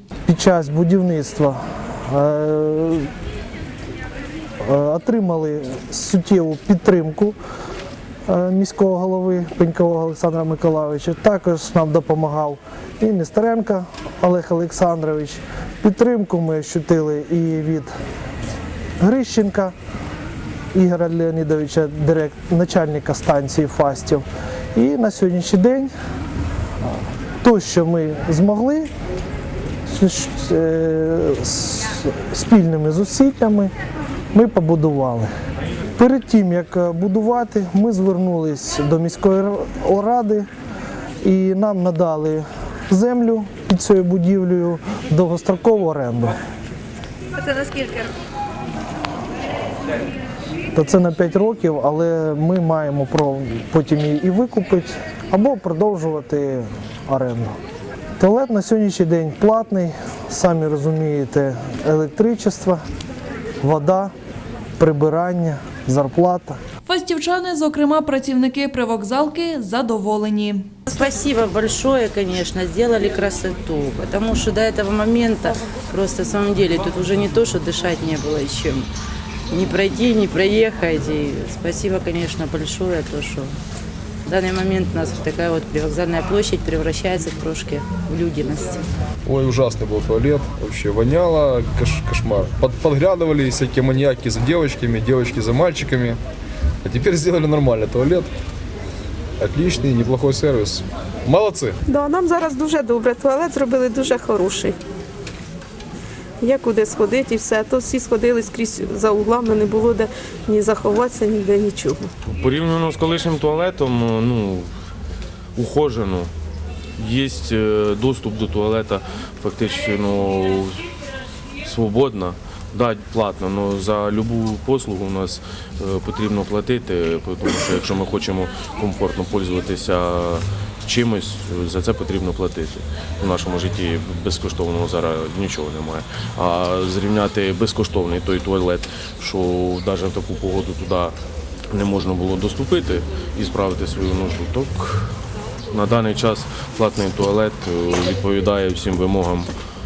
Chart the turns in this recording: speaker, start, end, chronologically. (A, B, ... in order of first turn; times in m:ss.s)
0:00.3-0:03.1 A
0:04.6-0:07.4 A
0:08.3-0:17.9 A
0:19.0-0:19.7 A
0:20.7-0:25.9 A
0:27.4-0:28.9 A
0:29.9-0:33.7 A
0:34.3-0:35.3 A
0:36.0-0:40.4 A
0:41.2-0:46.4 A
0:50.7-0:57.5 A
0:58.2-1:02.8 A
1:03.6-1:04.1 A
1:04.8-1:06.6 A
1:06.8-1:10.7 B
1:10.9-1:18.9 C
1:19.5-1:23.5 C
1:24.2-1:28.8 C
1:29.2-1:36.2 D
1:36.8-1:38.3 D
1:39.4-1:41.8 D
1:41.8-1:44.8 E
1:46.4-1:52.1 E
1:52.3-1:54.7 F
1:55.6-1:56.3 F
1:57.0-2:00.8 F
2:01.6-2:21.1 F
2:21.7-2:25.1 F
2:25.7-2:29.5 F